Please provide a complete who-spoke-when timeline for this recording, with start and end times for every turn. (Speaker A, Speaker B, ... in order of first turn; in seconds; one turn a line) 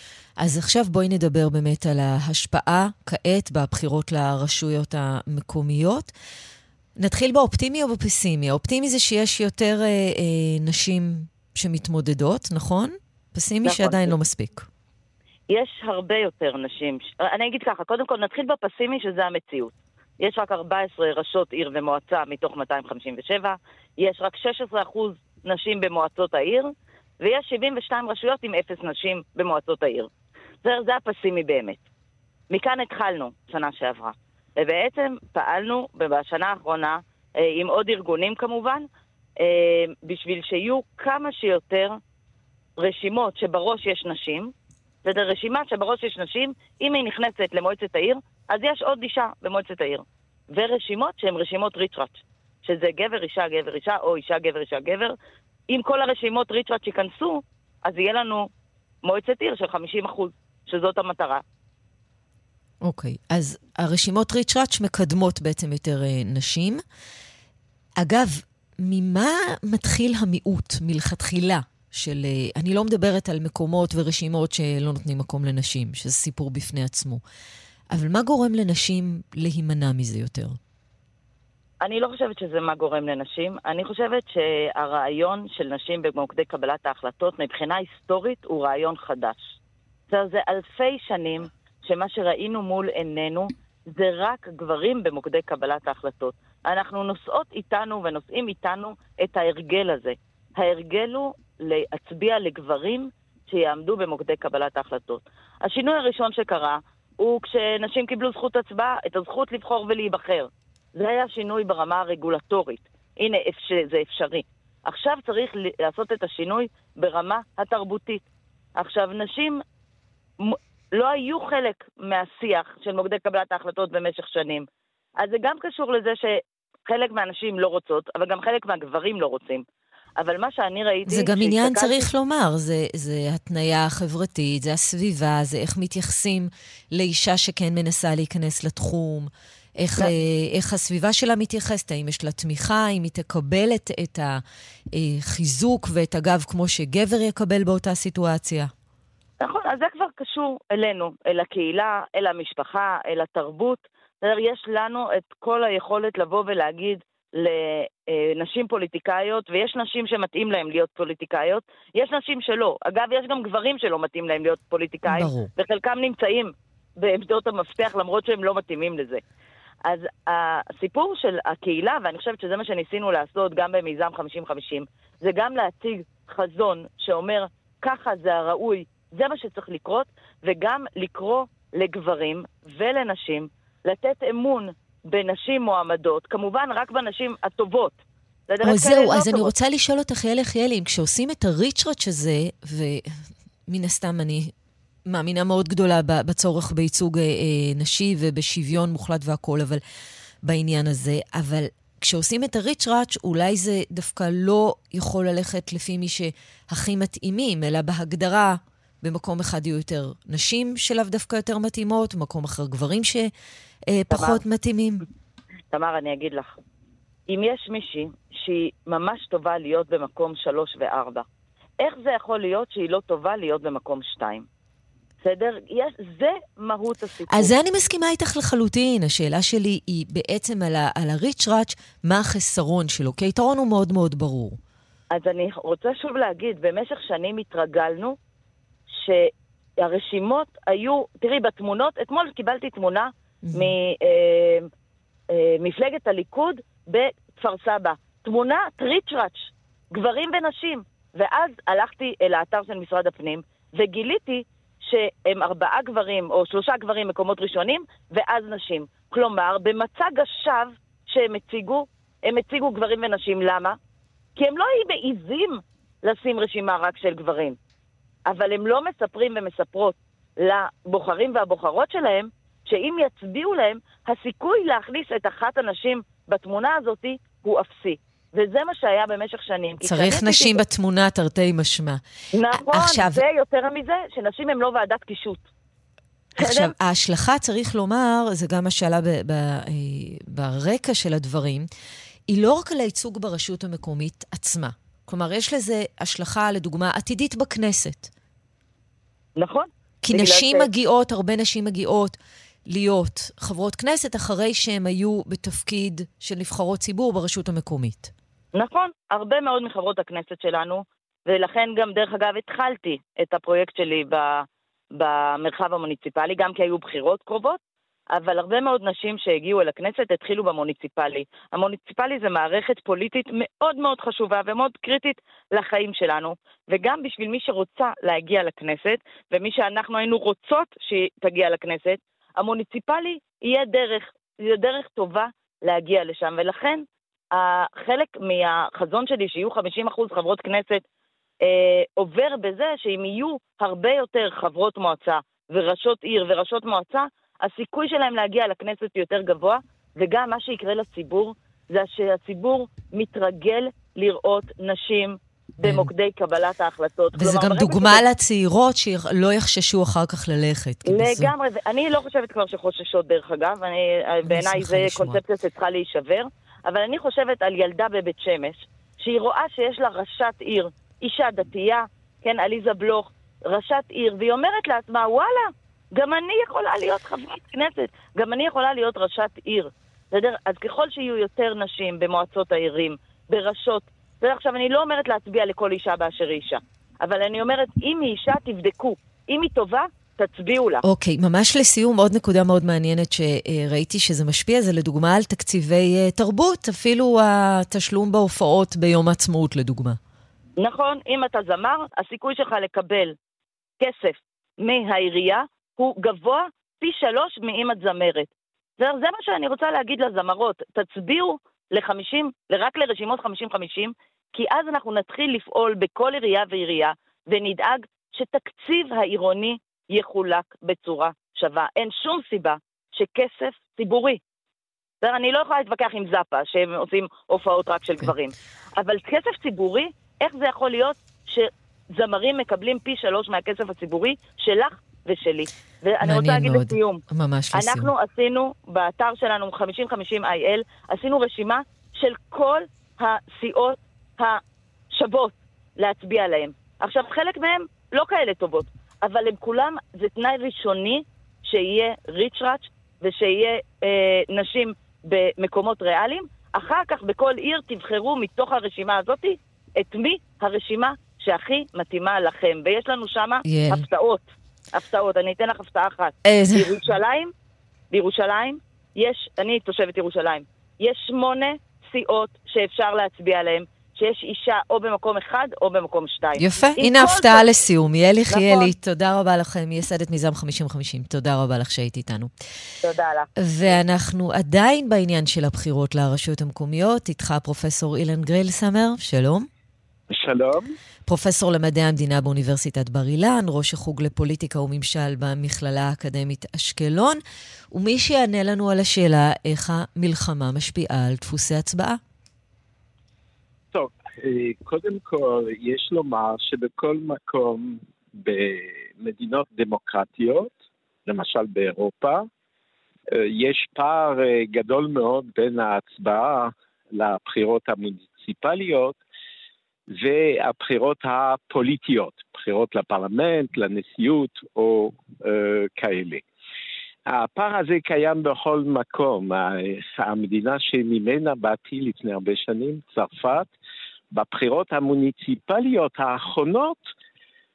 Speaker A: 0.4-6.1
Speaker A: 7.0-14.7
Speaker B: 13.6-14.1
Speaker B: 15.5-30.1
Speaker B: 30.6-31.8
Speaker B: 32.5-38.9
Speaker B: 39.4-42.0
Speaker B: 42.8-44.5
Speaker B: 45.0-55.1
Speaker B: 55.7-58.5
Speaker B: 59.0-61.4
Speaker A: 62.8-66.8
Speaker A: 68.0-77.2
Speaker A: 77.9-80.6
Speaker B: 81.8-89.5
Speaker B: 90.1-118.2
Speaker B: 118.8-119.6
Speaker B: 120.4-124.7
Speaker B: 125.2-129.6
Speaker B: 130.2-131.9
Speaker A: 131.1-144.4
Speaker A: 144.9-148.7
Speaker B: 149.4-169.2
Speaker A: 165.1-165.5
Speaker B: 169.8-189.5
Speaker A: 188.6-194.5
Speaker A: 195.1-199.8
Speaker A: 200.4-213.3
Speaker A: 213.9-215.0
Speaker B: 214.1-214.4
Speaker B: 215.7-216.6
Speaker B: 217.3-221.2
Speaker B: 221.8-224.4
Speaker B: 225.2-227.5
Speaker A: 227.3-234.6
Speaker B: 235.1-238.2
Speaker B: 238.9-244.7
Speaker A: 243.4-243.8
Speaker B: 245.3-263.8
Speaker B: 264.4-267.6
Speaker B: 268.3-280.6
Speaker A: 279.8-282.0
Speaker B: 282.3-285.4
Speaker A: 282.6-283.2
Speaker A: 286.4-291.7
Speaker B: 286.4-286.7
Speaker A: 292.3-298.1
Speaker B: 299.4-300.7
Speaker A: 300.0-302.2
Speaker A: 302.7-308.1
Speaker B: 308.5-317.6
Speaker B: 318.1-340.8
Speaker B: 341.4-358.0
Speaker A: 355.6-355.9
Speaker A: 357.2-361.3
Speaker B: 360.9-390.8
Speaker A: 364.3-365.2
Speaker A: 390.8-400.0
Speaker B: 400.6-403.1
Speaker B: 403.8-424.2
Speaker B: 425.0-437.0
Speaker A: 436.0-437.9
Speaker B: 437.5-444.4
Speaker B: 444.9-467.3
Speaker A: 463.4-463.9
Speaker A: 466.2-466.8
Speaker B: 467.9-477.4
Speaker A: 476.4-482.3
Speaker B: 478.3-478.7
Speaker B: 482.8-483.8
Speaker A: 483.4-489.5
Speaker C: 490.1-490.7
Speaker A: 491.1-497.2
Speaker A: 497.7-502.0
Speaker C: 503.7-510.5
Speaker C: 511.1-512.3
Speaker C: 513.1-519.0
Speaker C: 519.9-526.2
Speaker C: 527.1-533.5
Speaker C: 534.1-536.9